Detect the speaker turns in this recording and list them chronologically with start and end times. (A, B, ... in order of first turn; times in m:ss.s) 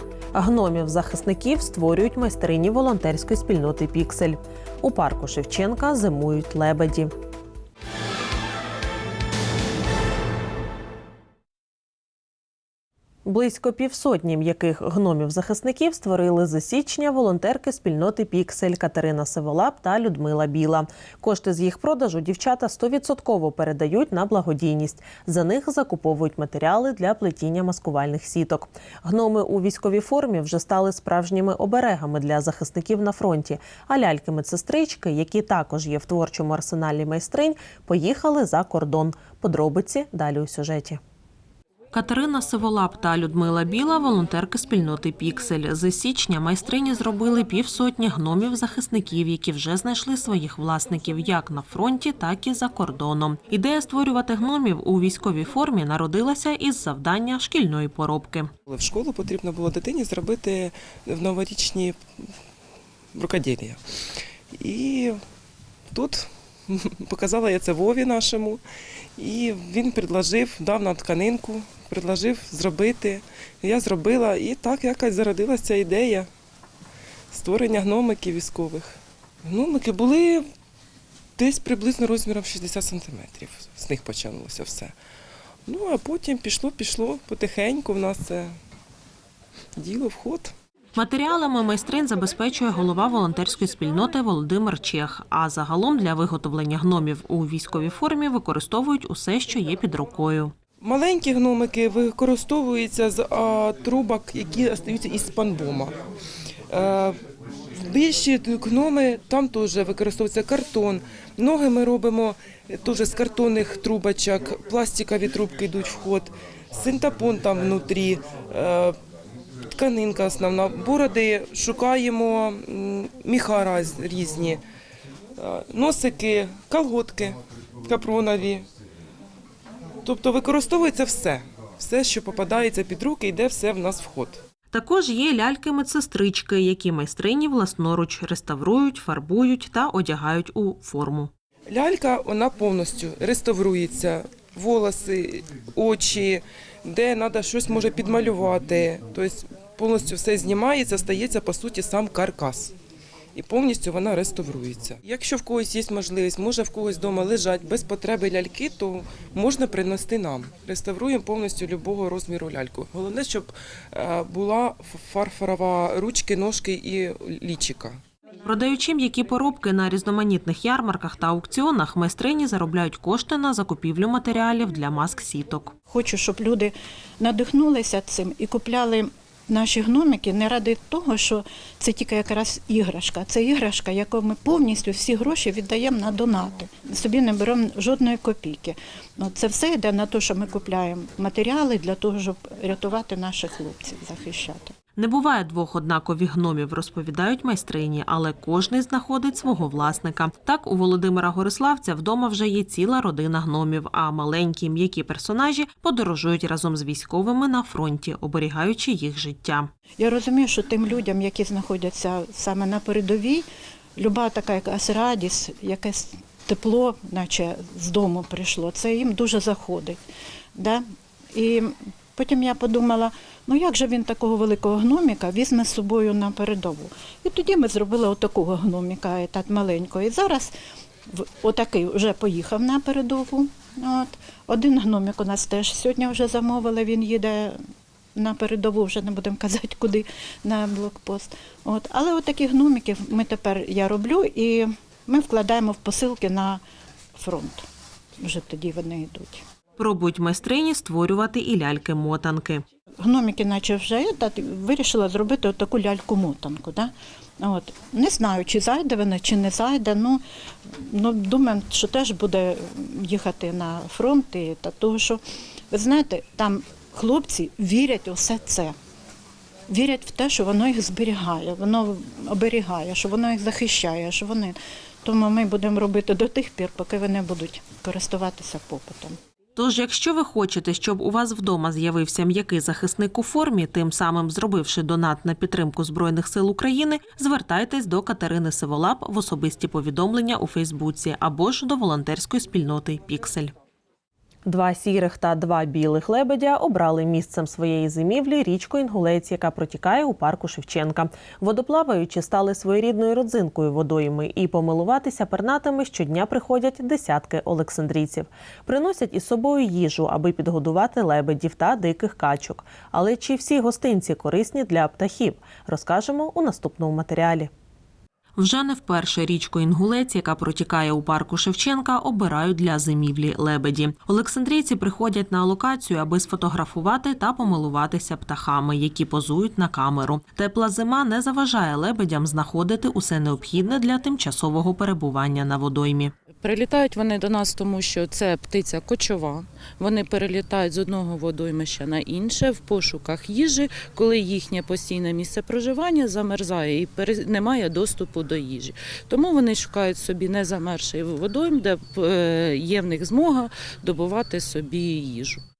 0:00.3-0:07.1 A
0:13.3-0:41.0 A
0:41.9-0:58.5 A
0:58.7-1:02.0 B
1:03.1-1:03.8 B
1:04.6-1:05.2 B
1:05.9-1:08.6 B
1:09.2-1:16.3 B
1:17.3-1:20.4 B
1:21.4-1:24.9 B
1:25.7-1:28.5 B
1:29.8-1:30.5 B
1:31.0-1:40.5 A
1:40.8-1:46.0 B
1:46.7-1:47.2 B
1:47.8-1:59.0 B
1:59.8-2:04.6 B
2:05.4-2:08.6 B
2:10.0-2:14.4 B
2:14.7-2:21.3 A
2:21.7-2:32.7 B
2:33.4-2:48.0 B
2:48.4-2:55.8 A
2:55.9-3:14.7 C
3:15.0-3:29.7 A
3:30.0-3:33.4 C
3:34.0-3:40.0 C
3:40.6-3:40.8 C
3:41.3-3:50.5 C
3:51.1-3:57.6 C
3:58.2-4:06.6 C
4:07.2-4:07.6 C
4:08.2-4:09.4 C
4:09.8-4:12.6 A
4:13.0-4:20.2 C
4:20.8-4:28.7 C
4:29.7-4:39.2 C
4:39.6-4:53.5 A
4:54.5-5:17.5 A
5:18.4-5:36.1 A
5:36.4-5:55.4 D